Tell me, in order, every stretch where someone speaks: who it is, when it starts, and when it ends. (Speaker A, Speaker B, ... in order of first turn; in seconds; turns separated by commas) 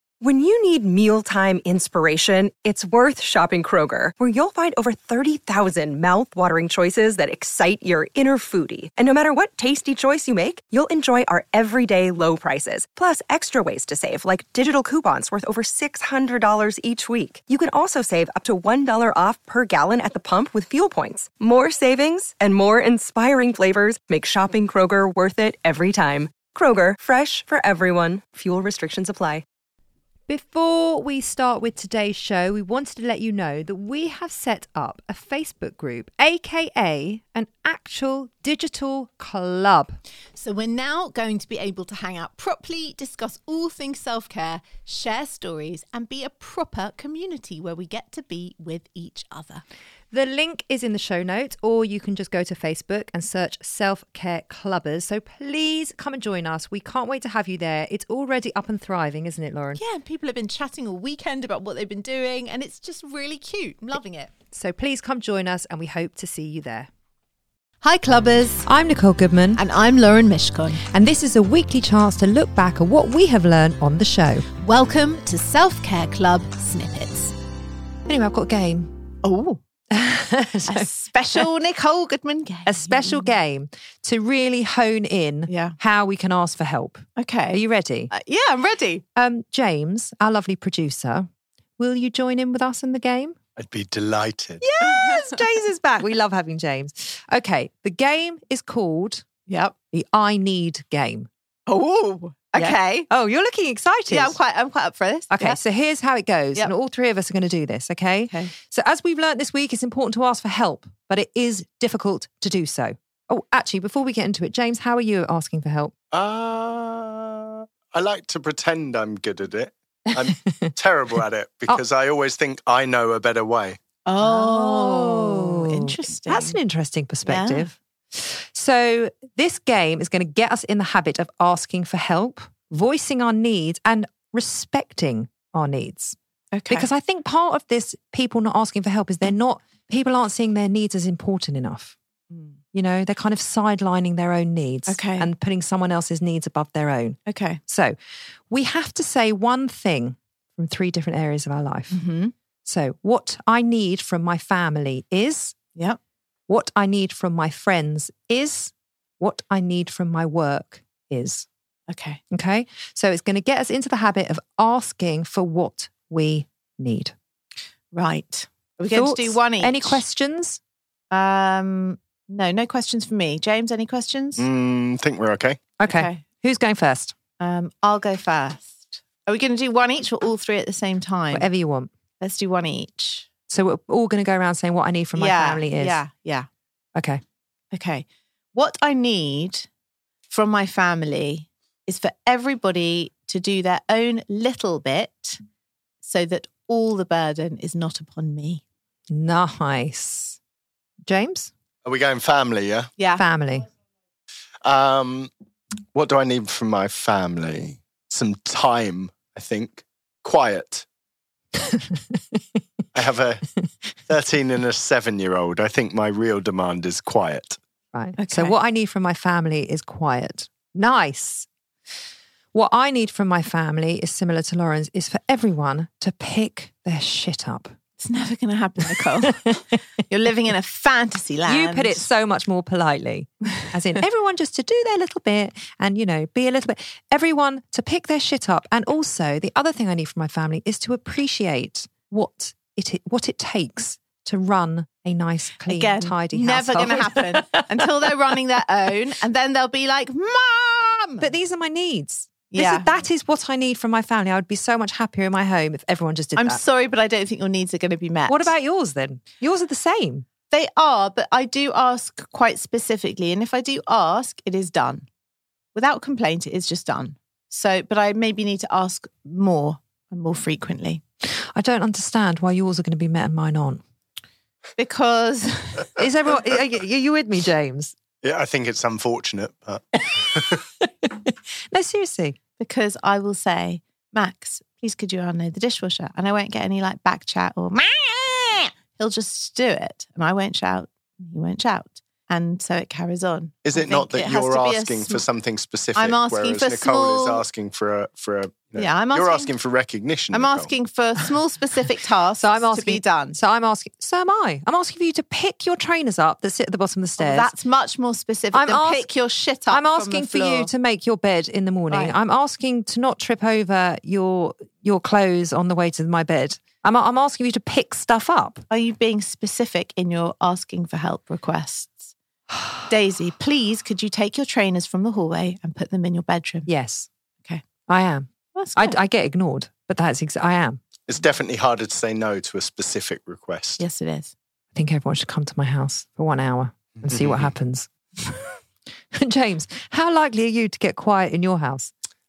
Speaker A: 0.2-29.4, Speaker B: 30.3-40.0, Speaker C: 40.4-49.6, Speaker B: 50.1-59.8, Speaker C: 59.8-64.3, Speaker B: 64.5-66.9, Speaker C: 67.8-68.7, Speaker B: 68.7-69.6, Speaker C: 69.5-70.8, Speaker B: 70.9-74.5, Speaker C: 74.6-77.3, Speaker B: 78.1-78.9, Speaker C: 79.2-79.6, Speaker B: 79.9-81.5, Speaker C: 80.7-83.3, Speaker B: 82.7-88.1, Speaker C: 85.5-85.8, Speaker C: 87.2-89.0, Speaker B: 89.2-93.4, Speaker D: 93.6-94.6, Speaker B: 94.6-99.2, Speaker C: 94.8-95.4, Speaker C: 99.5-99.8, Speaker B: 99.9-101.3, Speaker C: 101.7-103.1, Speaker B: 102.5-104.4, Speaker C: 104.1-105.6, Speaker B: 105.3-115.9, Speaker D: 116.1-123.8, Speaker B: 120.3-120.7, Speaker C: 124.0-126.6, Speaker B: 124.2-136.2, Speaker C: 127.2-127.7, Speaker C: 136.5-136.9, Speaker B: 136.7-141.9, Speaker B: 142.7-147.9, Speaker C: 144.9-145.3, Speaker C: 147.3-147.6, Speaker B: 148.5-152.0, Speaker C: 151.9-152.3, Speaker B: 152.7-155.6, Speaker B: 156.5-161.5, Speaker C: 161.9-162.2, Speaker B: 162.3-167.1, Speaker C: 167.9-170.0, Speaker B: 168.9-170.6, Speaker C: 171.1-174.5, Speaker D: 174.4-175.6, Speaker B: 175.8-177.2, Speaker C: 175.8-176.2, Speaker C: 177.4-181.5, Speaker B: 181.3-181.9, Speaker C: 182.2-183.3, Speaker B: 183.5-186.0, Speaker C: 185.2-186.5, Speaker B: 186.9-187.2, Speaker C: 187.7-189.7, Speaker C: 190.3-195.4, Speaker C: 196.0-198.6, Speaker B: 199.1-200.4, Speaker B: 201.1-201.5, Speaker D: 201.8-202.9, Speaker C: 203.0-203.2, Speaker B: 203.2-203.7, Speaker D: 204.6-205.3, Speaker D: 205.9-210.8, Speaker B: 211.7-212.0, Speaker D: 212.9-213.4, Speaker D: 214.1-217.6, Speaker B: 217.9-221.5, Speaker C: 218.2-218.6, Speaker B: 222.5-227.7, Speaker C: 228.0-232.1, Speaker B: 229.3-229.6, Speaker B: 231.5-247.7, Speaker C: 245.7-251.3, Speaker B: 251.2-256.6, Speaker C: 252.5-253.0, Speaker C: 256.4-258.5, Speaker B: 258.3-260.3, Speaker C: 260.5-265.1, Speaker C: 265.8-271.0, Speaker B: 271.6-273.8, Speaker C: 274.8-275.9, Speaker B: 276.0-277.9, Speaker D: 278.2-280.6, Speaker B: 281.0-282.4, Speaker C: 282.6-295.2, Speaker D: 293.6-300.7, Speaker C: 295.9-297.4, Speaker C: 298.8-299.5, Speaker C: 300.3-303.4, Speaker B: 302.4-307.5, Speaker C: 307.2-310.7, Speaker B: 308.5-309.1, Speaker B: 309.7-318.6, Speaker C: 311.9-312.2, Speaker C: 318.7-322.1, Speaker C: 322.9-326.7, Speaker B: 326.7-327.1, Speaker B: 327.9-330.8, Speaker C: 328.5-329.0, Speaker D: 331.1-333.8, Speaker C: 333.8-334.3, Speaker B: 334.8-338.5, Speaker D: 337.0-337.5, Speaker B: 339.1-341.9